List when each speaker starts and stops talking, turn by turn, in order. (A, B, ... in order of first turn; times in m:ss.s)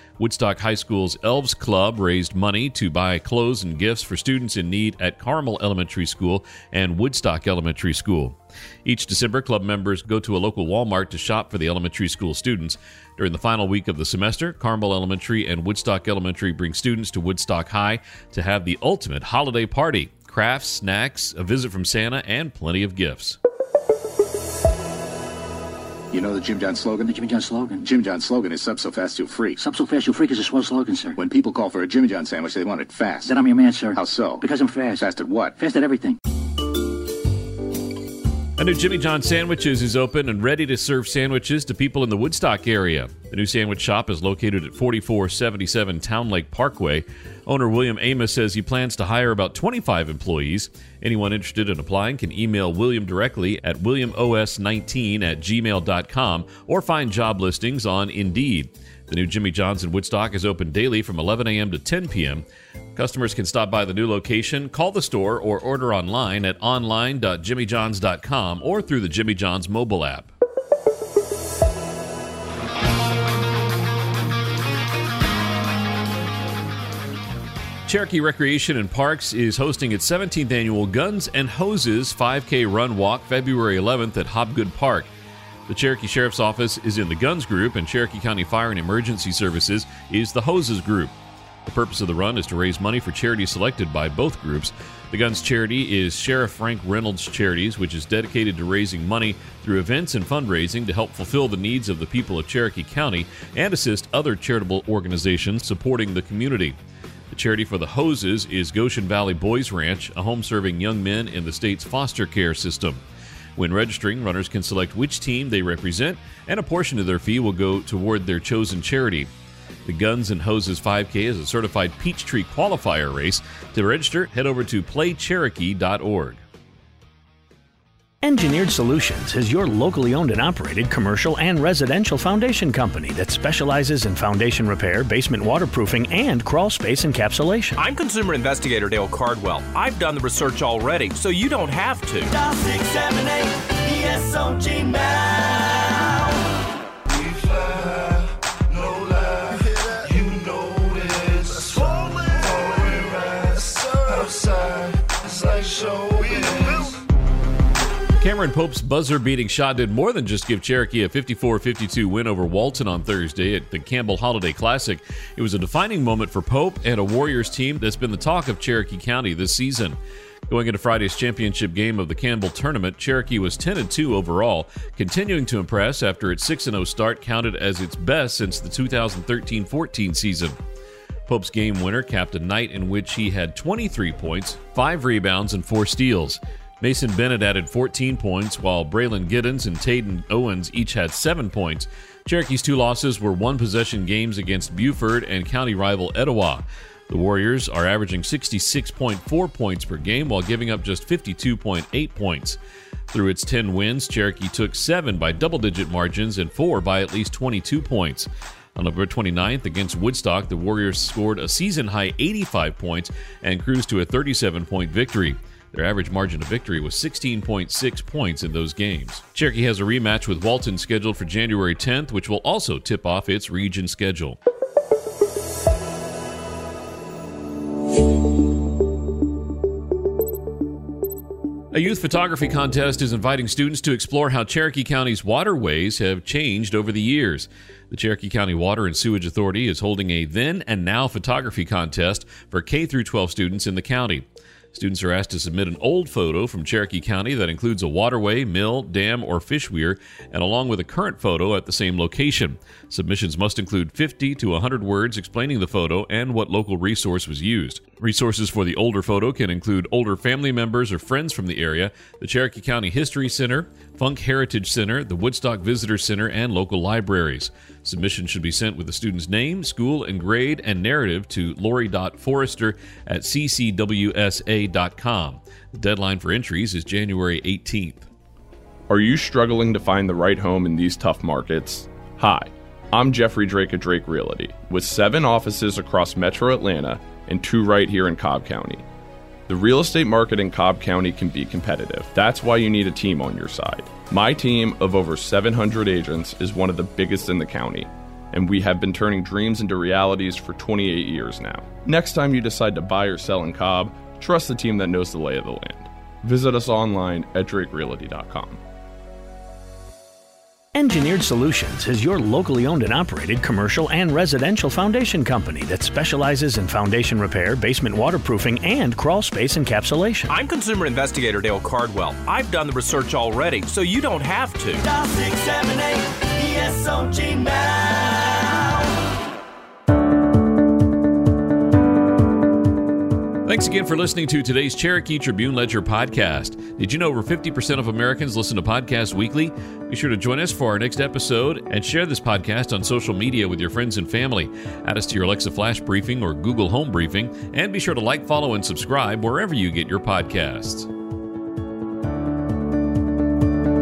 0:00.2-0:23.4 A
0:26.1-0:27.2 B
0:27.1-0:27.8 C
0:27.8-0:29.6 B
0:29.6-0:31.2 C
0:31.2-0:35.6 B
0:33.3-0:35.0 C
0:35.6-0:36.2 C
0:38.6-1:10.3 A
1:17.8-1:25.1 A
1:25.7-1:46.8 A
1:47.3-1:53.0 A
1:53.6-1:59.3 A
1:59.8-2:06.4 A
2:08.2-2:17.8 D
2:17.8-2:22.3 E
2:22.4-2:26.3 F
2:30.6-2:31.0 B
2:35.8-2:36.8 B
2:38.2-3:00.6 A
3:01.3-3:22.6 A
3:23.1-3:44.4 A
3:51.7-4:38.1 A
4:38.9-4:48.8 G
4:49.5-5:08.6 G
5:10.7-5:20.3 D
5:20.3-5:24.8 E
5:24.8-5:28.8 F
5:33.4-5:50.9 A